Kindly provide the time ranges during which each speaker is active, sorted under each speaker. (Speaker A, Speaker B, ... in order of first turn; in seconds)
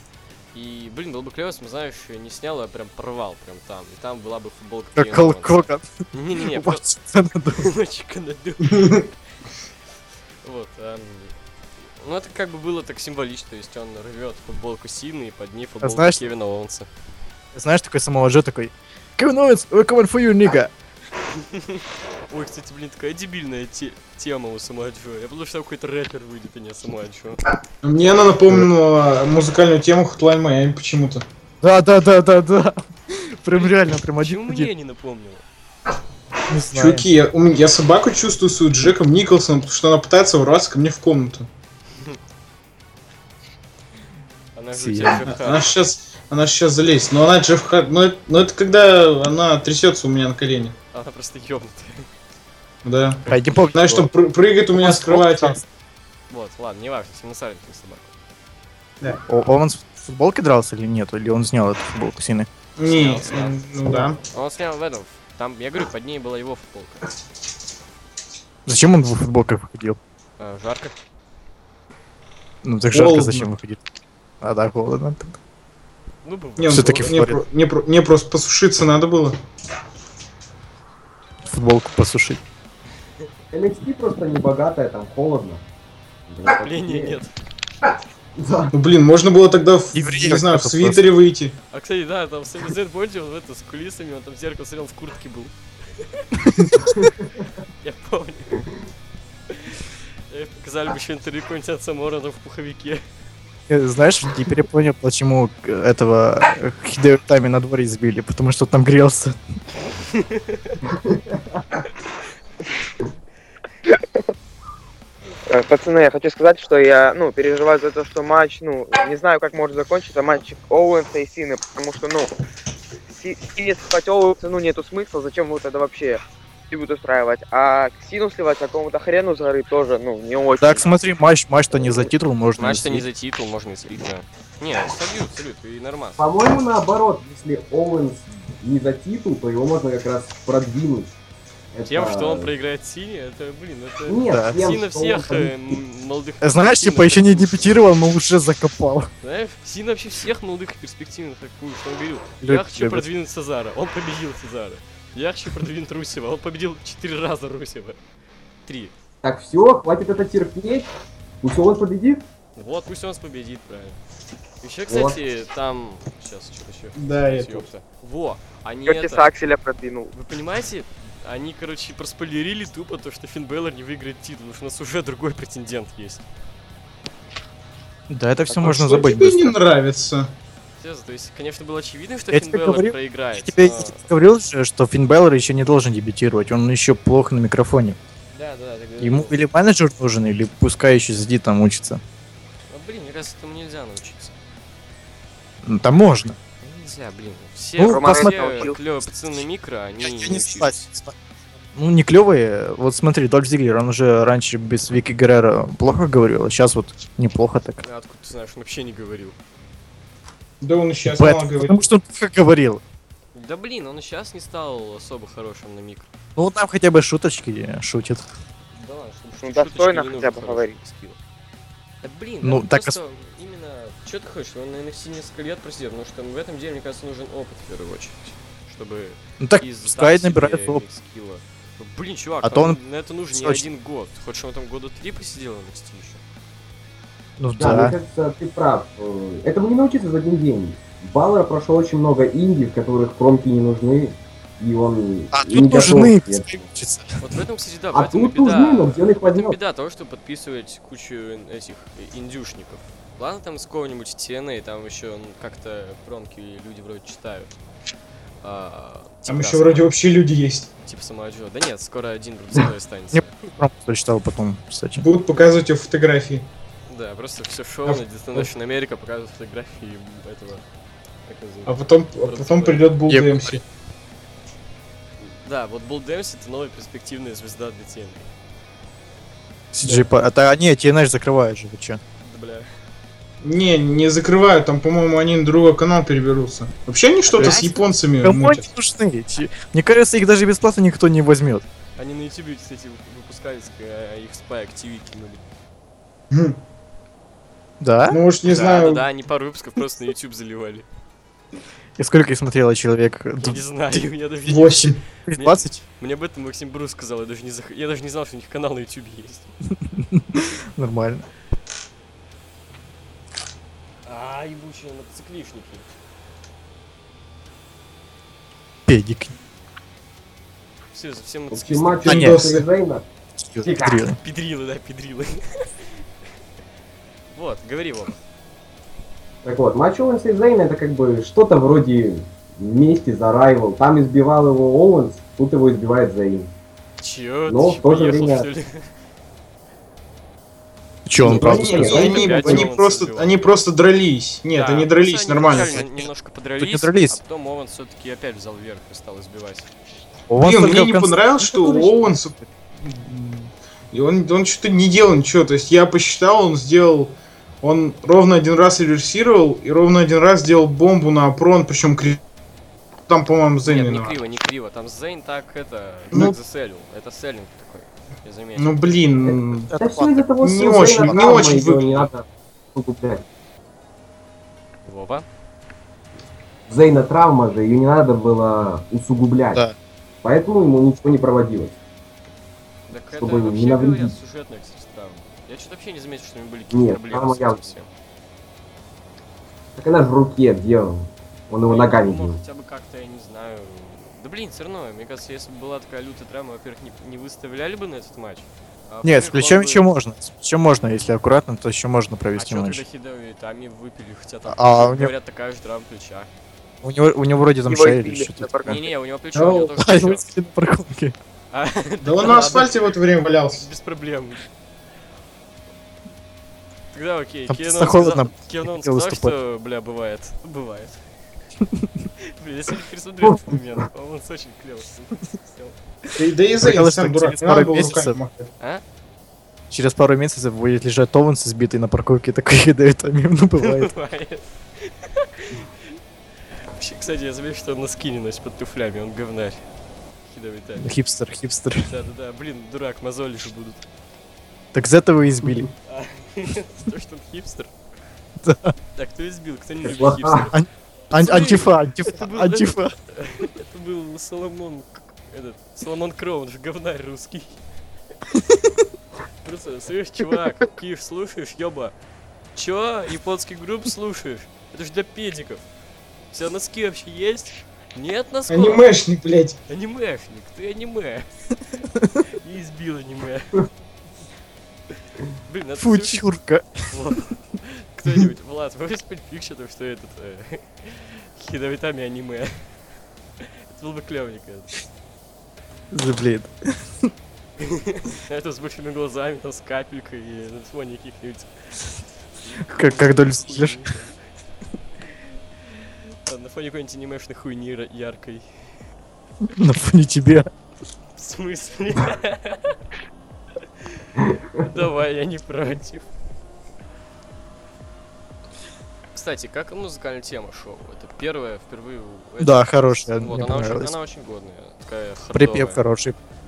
Speaker A: 0.5-6.8, 7.5-9.1, 10.4-16.9, 21.3-27.4, 33.5-35.4, 44.5-45.8, 50.9-52.1, 56.3-58.1, 62.8-63.6, 64.3-67.0, 70.4-70.9, 76.2-77.2, 86.4-87.3, 91.7-96.2, 97.8-98.7, 99.5-103.0, 110.1-110.8, 132.6-136.2, 141.9-147.7, 149.2-158.0, 158.7-158.9, 162.6-164.0, 164.6-169.3, 170.1-176.2, 180.8-184.1, 188.3-189.4, 192.7-194.3, 196.6-200.8, 207.8-209.4, 213.3-216.1, 218.8-221.2, 222.0-236.2, 247.2-257.5, 258.4-259.9, 260.9-263.4, 266.9-270.6, 271.2-272.9, 275.2-278.3, 282.2-282.7, 287.3-287.9, 292.0-295.4, 298.4-300.9, 303.4-309.5, 314.1-315.9, 320.9-322.3, 324.2-325.7, 327.3-328.1, 337.0-338.9, 341.9-343.4, 344.5-349.7, 363.6-368.9, 374.8-375.2, 382.9-387.9, 391.7-399.9, 402.3-406.3, 408.7-410.3, 411.5-412.7, 413.6-414.4, 416.9-421.0, 422.2-425.8, 433.6-435.7, 436.7-439.6, 440.3-440.9, 441.8-443.8, 445.9-447.7, 448.9-450.6, 451.1-457.6, 459.4-461.9, 462.5-465.6, 466.3-468.9, 469.7-471.3, 472.1-473.7, 475.3-476.2, 476.9-482.6, 483.4-484.8, 487.6-491.5, 492.6-494.1, 496.2-498.5, 501.1-502.8, 503.9-506.1, 509.1-515.8
Speaker B: 5.0-5.8, 6.4-7.7, 15.8-16.3, 17.5-20.7, 31.6-34.7, 36.5-37.0, 44.7-45.2, 53.3-54.1, 54.8-55.6, 59.2-62.5, 68.7-70.0, 72.6-73.8, 74.4-75.4, 76.7-77.4, 81.5-82.4, 89.9-91.0, 103.7-109.4, 130.6-133.0, 144.3-144.7, 146.4-149.1, 152.4-153.1, 178.1-179.6, 182.3-188.0, 189.0-192.0, 195.6-196.3, 197.8-198.7, 200.0-201.1, 201.7-207.8, 211.0-212.8, 216.3-218.2, 222.4-223.0, 229.4-230.8, 232.4-232.8, 233.3-233.6, 237.4-237.9, 245.3-247.2, 263.1-265.1, 273.1-273.6, 279.7-282.0, 287.3-287.7, 288.2-291.6, 297.8-298.2, 302.0-304.0, 305.3-305.8, 309.8-311.2, 318.9-319.3, 322.1-322.6, 323.4-324.2, 341.1-342.6, 346.6-347.2, 350.3-351.9, 369.7-371.4, 399.0-402.8, 404.5-405.1, 406.8-408.8, 409.8-411.1, 417.5-419.3, 426.6-428.2, 429.7-433.9, 440.8-441.9, 444.7-445.7, 448.4-448.7, 450.5-452.9, 458.4-458.7, 475.8-476.8, 485.9-487.1, 492.7-493.8, 499.4-500.5, 512.4-513.9, 515.3-516.1
Speaker C: 27.8-31.2, 36.7-41.5, 45.2-50.7, 52.8-55.6, 62.8-64.2, 72.9-73.5, 76.6-79.4, 88.7-91.5, 166.9-167.7, 178.6-180.3, 210.6-211.9, 259.3-260.7, 265.0-266.4, 271.6-273.6, 279.8-280.1, 283.4-288.7, 296.3-296.6, 298.1-299.1, 304.5-305.0, 322.1-322.6, 341.2-345.8, 350.4-362.2, 363.1-364.2, 368.6-369.7, 370.4-372.1, 409.3-409.7, 412.0-413.7, 426.1-428.5, 468.5-469.6
Speaker D: 83.5-85.6, 86.3-87.2, 88.3-88.7, 136.2-141.1, 141.7-142.5, 144.1-145.5, 159.2-160.9, 161.4-162.2, 164.9-165.2, 237.6-246.6, 247.9-249.6, 321.5-323.0, 323.6-324.0, 329.4-336.5, 337.5-338.5, 341.2-342.7, 369.2-373.2, 376.7-379.6, 380.2-381.7, 383.2-384.1, 386.7-387.6, 389.8-392.4, 449.8-450.5
Speaker E: 115.5-122.3, 123.1-130.9, 168.8-170.1, 197.8-198.8, 219.4-220.7, 407.7-408.8